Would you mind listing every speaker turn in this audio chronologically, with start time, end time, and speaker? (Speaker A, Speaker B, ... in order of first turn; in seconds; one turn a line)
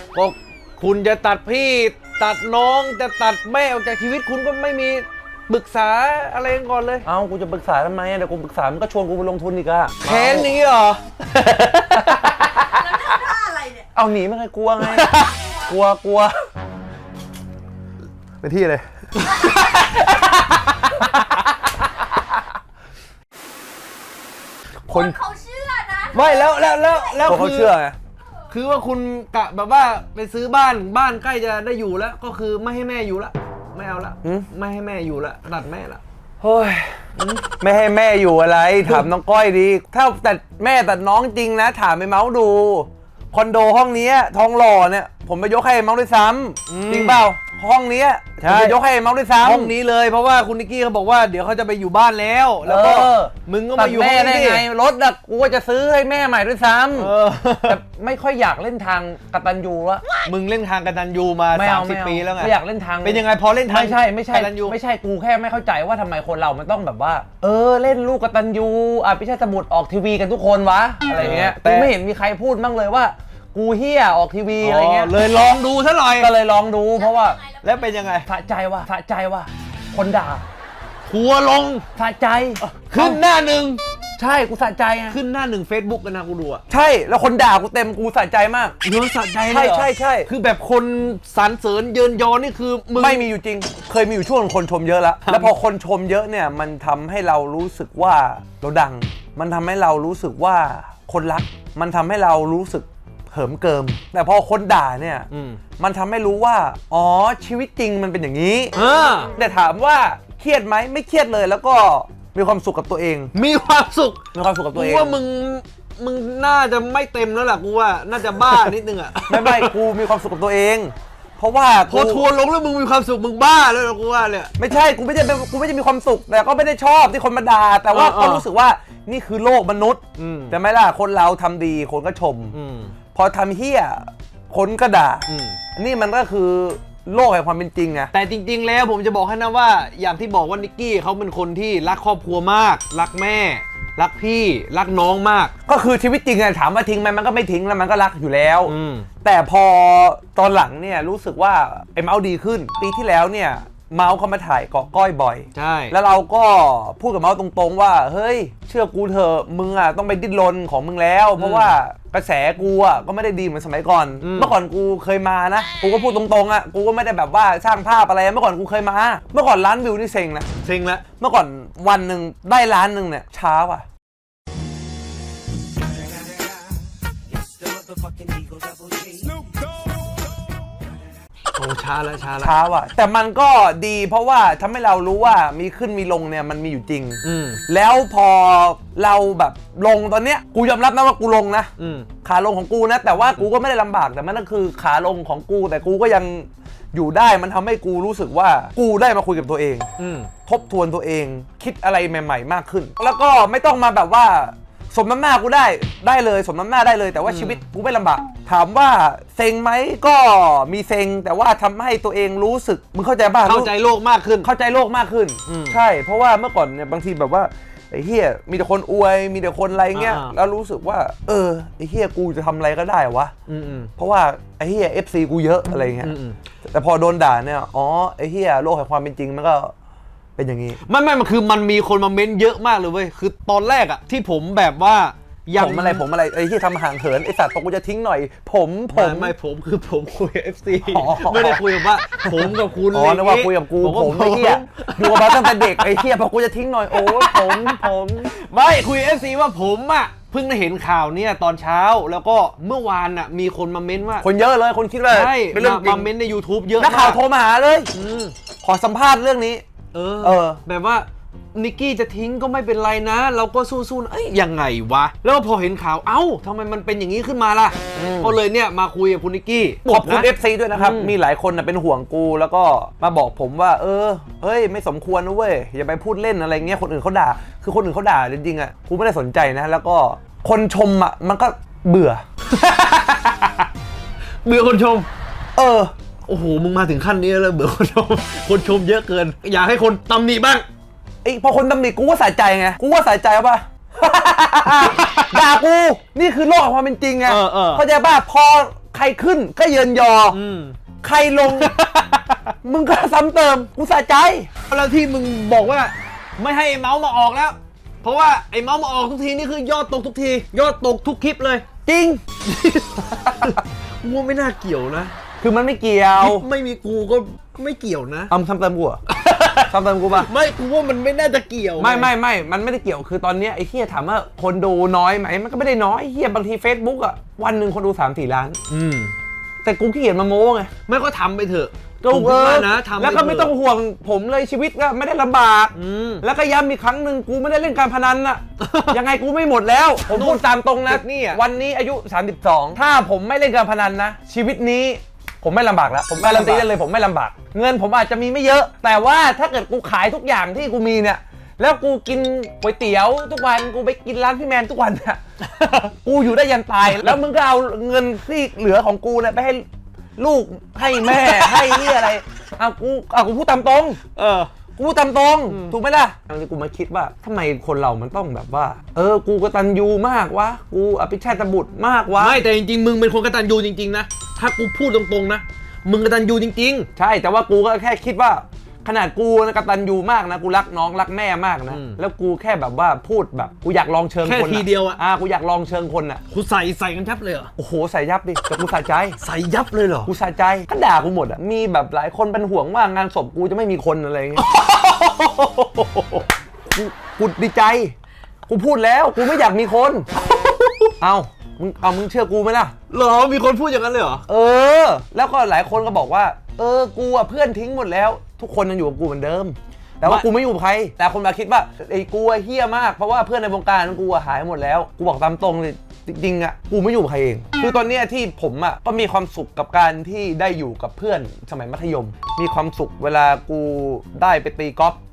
Speaker A: 0.1-7.1
Speaker B: 7.0-10.5
Speaker A: 10.0-12.3
Speaker B: 11.8-13.2
Speaker C: 13.0-13.8
Speaker B: 13.9-16.3
Speaker A: 14.8-15.5
Speaker A: 18.4-21.4
Speaker C: 24.9-27.3
Speaker B: 24.9-25.2
Speaker A: 26.1-27.7
Speaker B: 27.2-28.0
Speaker A: 28.5-36.0
Speaker B: 36.4-37.0
Speaker A: 37.2-37.4
Speaker B: 37.6-49.7
Speaker A: 38.8-39.1
Speaker A: 46.7-47.3
Speaker A: 48.4-48.8
Speaker A: 49.4-54.6
Speaker B: 52.6-57.1
Speaker A: 56.9-57.8
Speaker B: 57.6-60.1
Speaker A: 60.2-64.8
Speaker B: 61.5-75.1
Speaker A: 71.1-71.9
Speaker A: 74.6-76.3
Speaker B: 76.2-77.4
Speaker C: 77.2-77.6
Speaker A: 77.6-78.3
Speaker B: 78.2-80.5
Speaker A: 81.1-81.9
Speaker B: 82.0-83.2
Speaker A: 82.6-83.8
Speaker B: 84.2-85.2
Speaker A: 85.1-86.6
Speaker B: 86.7-88.8
Speaker A: 88.8-93.3
Speaker B: 89.5-90.3
Speaker B: 93.0-108.8
Speaker A: 95.2-95.5
Speaker A: 105.3-105.6
Speaker A: 108.8-109.3
Speaker B: 109.3-113.3
Speaker A: 113.3-114.2
Speaker B: 114.3-115.2
Speaker A: 114.7-119.7
Speaker B: 119.3-122.3
Speaker A: 121.9-124.5
Speaker B: 124.6-132.6
Speaker A: 127.9-128.5
Speaker A: 130.2-130.6
Speaker A: 132.5-132.9
Speaker B: 133.1-138.1
Speaker A: 135.3-135.6
Speaker A: 138.1-145.5
Speaker B: 145.7-170.5
Speaker A: 148.7-149.1
Speaker A: 155.5-155.9
Speaker A: 161.4-161.8
Speaker A: 164.2-164.5
Speaker A: 170.6-171.1
Speaker B: 171.2-173.8
Speaker A: 177.8-179.0
Speaker A: 181.6-182.5
Speaker B: 182.4-191.7
Speaker A: 187.2-187.6
Speaker A: 191.8-192.1
Speaker B: 192.2-199.9
Speaker A: 200.0-200.3
Speaker B: 200.5-213.7
Speaker A: 207.2-207.6
Speaker A: 213.4-214.5
Speaker B: 214.4-223.3
Speaker A: 215.5-215.8
Speaker A: 219.9-220.3
Speaker A: 223.5-223.9
Speaker B: 224.0-226.1
Speaker A: 226.0-226.4
Speaker B: 226.7-229.7
Speaker B: 230.4-230.8
Speaker A: 230.8-236.1
Speaker B: 235.6-239.3
Speaker A: 238.9-246.1
Speaker B: 240.8-248.3
Speaker A: 246.9-254.3
Speaker B: 254.2-256.1
Speaker A: 255.1-257.2
Speaker B: 256.8-257.9
Speaker A: 257.9-258.4
Speaker B: 258.6-259.6
Speaker A: 259.9-271.1
Speaker B: 260.2-260.6
Speaker B: 267.9-268.4
Speaker B: 269.9-282.2
Speaker A: 282.5-283.7
Speaker A: 284.4-285.1
Speaker B: 285.6-285.9
Speaker A: 286.3-290.6
Speaker B: 291.2-300.4
Speaker A: 294.8-295.4
Speaker A: 297.2-297.9
Speaker A: 300.3-300.8
Speaker B: 301.0-301.7
Speaker A: 301.4-302.5
Speaker B: 302.6-304.5
Speaker A: 304.7-311.6
Speaker B: 311.9-312.2
Speaker A: 312.4-315.1
Speaker B: 315.4-316.5
Speaker A: 316.2-318.3
Speaker B: 318.3-319.0
Speaker A: 319.1-322.1
Speaker B: 319.7-320.3
Speaker B: 321.8-328.6
Speaker A: 328.7-329.1
Speaker B: 329.6-330.7
Speaker A: 330.9-333.5
Speaker B: 332.0-355.2
Speaker A: 335.7-336.2
Speaker A: 338.6-339.0
Speaker A: 340.1-341.4
Speaker A: 346.1-346.7
Speaker A: 355.4-355.9
Speaker B: 356.0-359.6
Speaker A: 356.9-357.2
Speaker B: 360.2-364.0
Speaker A: 361.1-362.1
Speaker A: 364.1-364.5
Speaker B: 364.8-372.4
Speaker A: 365.5-365.8
Speaker A: 372.2-376.9
Speaker B: 377.0-386.2
Speaker A: 381.7-382.0
Speaker A: 384.2-385.0
Speaker A: 386.3-387.5
Speaker B: 387.6-389.2
Speaker A: 389.2-390.1
Speaker B: 390.1-394.4
Speaker A: 394.4-396.3
Speaker B: 396.7-397.9
Speaker B: 398.5-400.1
Speaker A: 400.4-400.9
Speaker B: 401.0-402.8
Speaker A: 402.9-404.2
Speaker B: 404.3-425.0